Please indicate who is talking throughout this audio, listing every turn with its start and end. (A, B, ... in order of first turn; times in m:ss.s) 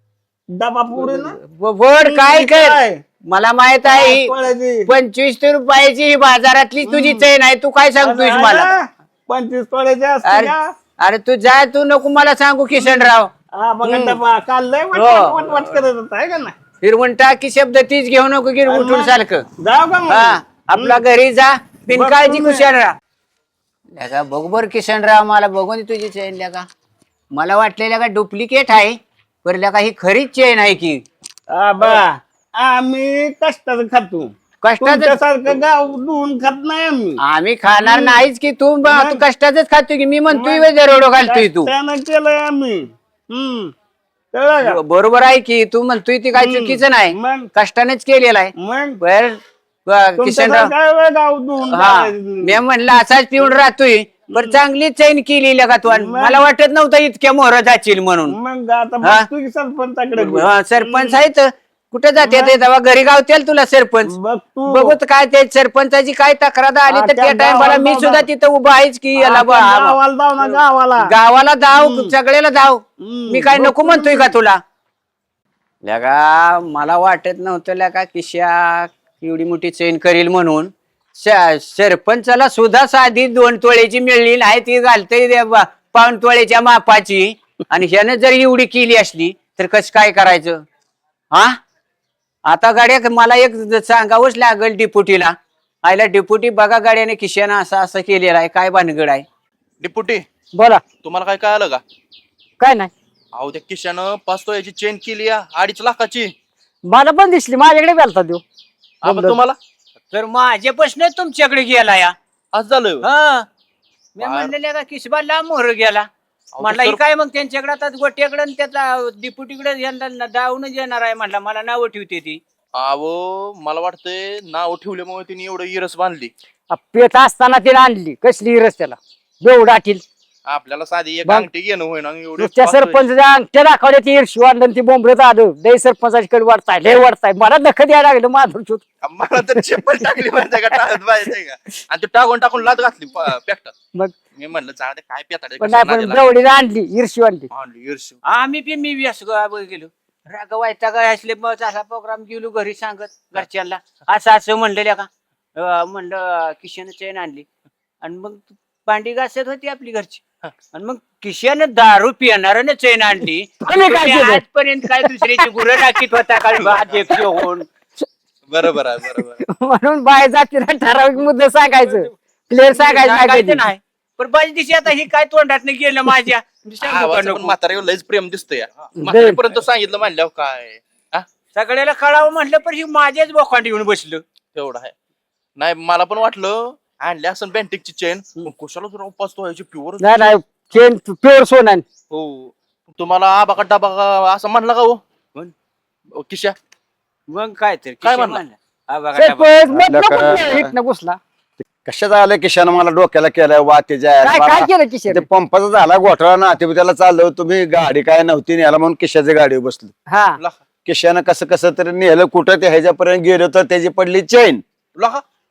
0:00.5-0:01.4 A
0:01.0-0:04.3 B
0:02.0-0:03.0 A
0:03.8-0:04.9 A
0:04.9-0:08.7 B
0:06.8-0:07.3 A
0:08.0-0:10.7 A
0:10.2-0:13.3 B
0:12.8-0:16.6 A
0:13.8-0:14.2 B
0:14.9-0:15.8 B
0:16.8-0:19.4 B
0:18.6-0:21.0 A
0:20.1-0:23.0 B
0:21.9-0:22.8 A
0:24.0-0:26.7 B
0:27.3-0:31.0 B
0:31.5-0:37.2 A
0:34.6-0:35.5 B
0:37.2-0:41.7 B
0:37.8-0:38.2 A
0:38.8-0:39.2 A
0:40.3-0:43.7 A
0:44.3-0:44.8 A
0:44.6-0:50.7 B
0:46.4-0:47.5 A
0:48.6-0:49.0 A
0:50.2-0:52.6 A
0:51.6-0:58.4 B
0:54.3-0:54.6 A
0:55.9-0:56.4 A
0:58.3-1:01.2 A
0:59.0-0:59.3 B
1:00.2-1:04.1 B
1:02.2-1:02.6 A
1:04.0-1:05.0 A
1:04.7-1:14.6 B
1:06.9-1:08.3 A
1:09.2-1:11.1 A
1:11.7-1:12.1 A
1:13.0-1:14.3 A
1:15.8-1:30.6 B
1:32.5-1:39.2 B
1:39.8-1:40.2 C
1:40.6-1:40.8 D
1:41.0-1:41.8 C
1:42.6-1:42.9 D
1:43.4-1:46.3 C
1:46.8-1:48.4 D
1:49.0-1:49.6 C
1:49.0-1:49.4 D
1:50.1-1:52.2 B
1:52.5-1:53.0 C
1:53.0-1:53.5 B
1:54.2-1:56.1 B
1:54.2-1:54.5 C
1:56.6-1:57.0 C
1:56.6-2:02.4 B
2:02.8-2:06.3 C
2:06.7-2:10.0 D
2:10.5-2:13.1 C
2:12.4-2:18.8 D
2:19.0-2:23.7 C
2:24.4-2:26.3 C
2:25.6-2:27.5 D
2:27.5-2:28.2 C
2:28.2-2:37.5 B
2:38.0-2:47.7 B
2:43.6-2:45.1 D
2:46.6-2:47.0 C
2:48.5-2:49.4 C
2:49.4-2:53.6 D
2:52.7-2:57.6 B
2:56.8-3:01.3 C
2:59.0-2:59.4 D
3:01.6-3:04.2 B
3:04.6-3:04.9 C
3:05.6-3:10.4 C
3:10.0-3:11.8 D
3:12.1-3:15.0 C
3:16.2-3:16.6 C
3:17.3-3:19.5 B
3:18.0-3:18.4 C
3:19.2-3:21.2 D
3:19.7-3:20.7 E
3:21.8-3:29.9 E
3:24.2-3:25.3 D
3:30.1-3:30.4 D
3:30.9-3:34.6 E
3:35.0-3:35.2 C